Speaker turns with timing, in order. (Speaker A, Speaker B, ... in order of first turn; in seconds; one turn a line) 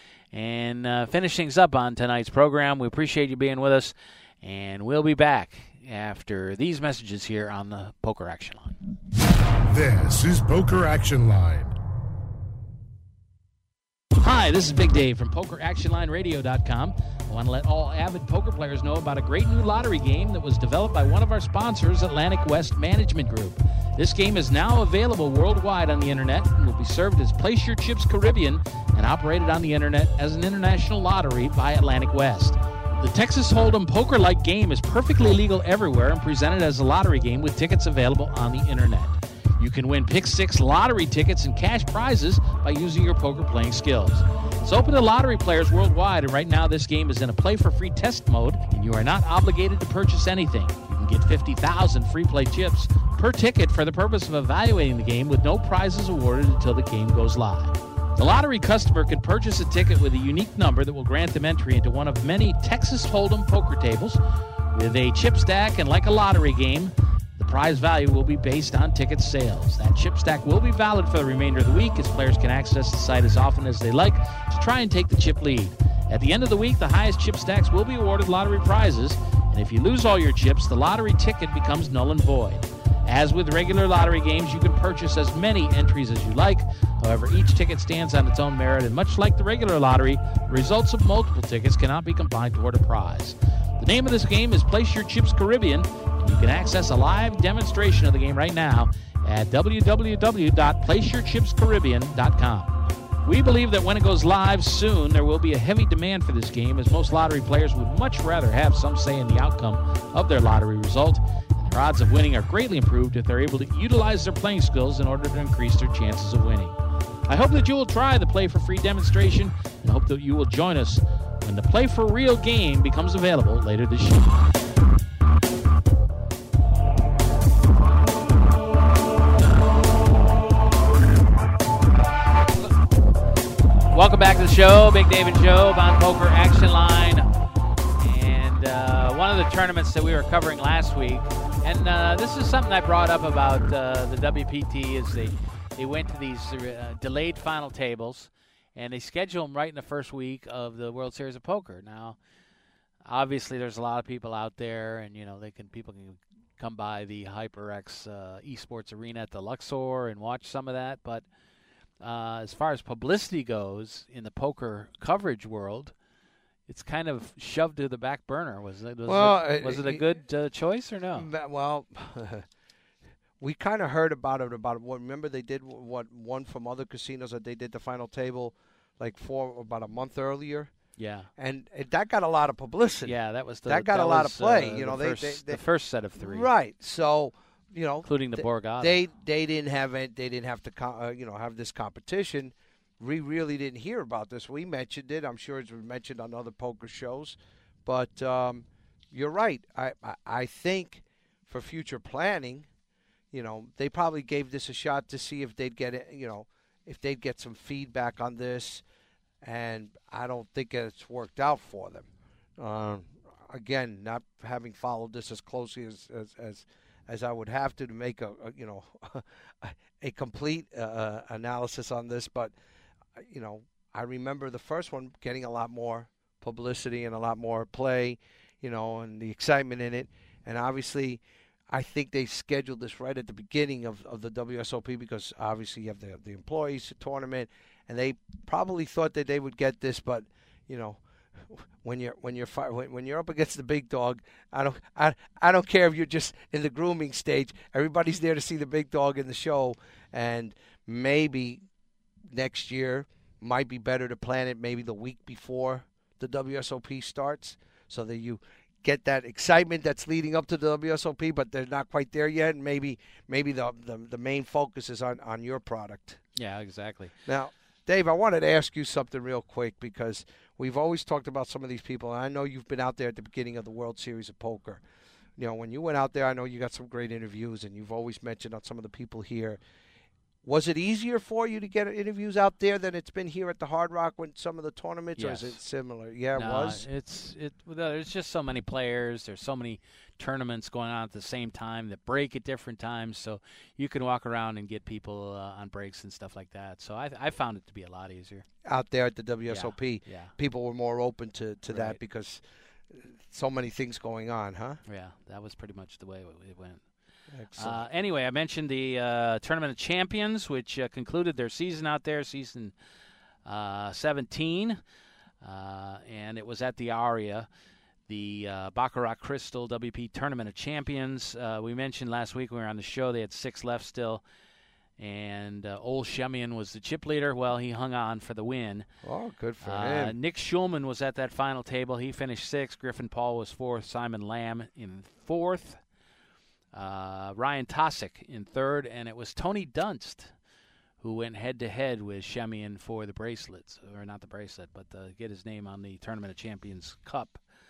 Speaker A: 0.3-8.8
Speaker B: 9.7-11.8
Speaker A: 14.2-64.2
Speaker A: 64.7-116.8
Speaker A: 117.3-124.4
Speaker A: 133.9-137.3
Speaker A: 138.0-152.2
Speaker A: 153.1-161.2
Speaker A: 162.0-165.9
Speaker A: 166.7-171.3
Speaker C: 169.1-170.0
Speaker C: 171.1-172.5
Speaker C: 173.4-180.7
Speaker A: 181.0-181.3
Speaker C: 181.4-183.2
Speaker A: 183.1-186.5
Speaker C: 183.7-185.6
Speaker C: 186.2-202.7
Speaker A: 188.1-189.0
Speaker C: 203.3-208.8
Speaker C: 209.4-212.1
Speaker C: 212.6-222.6
Speaker C: 223.2-251.6
Speaker C: 252.3-266.2
Speaker A: 266.4-267.1
Speaker C: 267.3-274.8
Speaker C: 275.4-279.6
Speaker C: 280.4-286.9
Speaker A: 285.2-285.6
Speaker A: 286.4-298.5
Speaker C: 298.6-304.8
Speaker A: 299.5-300.3
Speaker A: 301.7-302.0
Speaker A: 304.9-306.8
Speaker C: 307.3-307.8
Speaker A: 307.6-312.7
Speaker A: 313.4-314.8
Speaker A: 315.4-317.5
Speaker A: 318.1-324.2
Speaker A: 325.0-328.9
Speaker C: 329.0-330.2
Speaker A: 329.6-335.8
Speaker A: 336.7-340.3
Speaker A: 341.0-347.4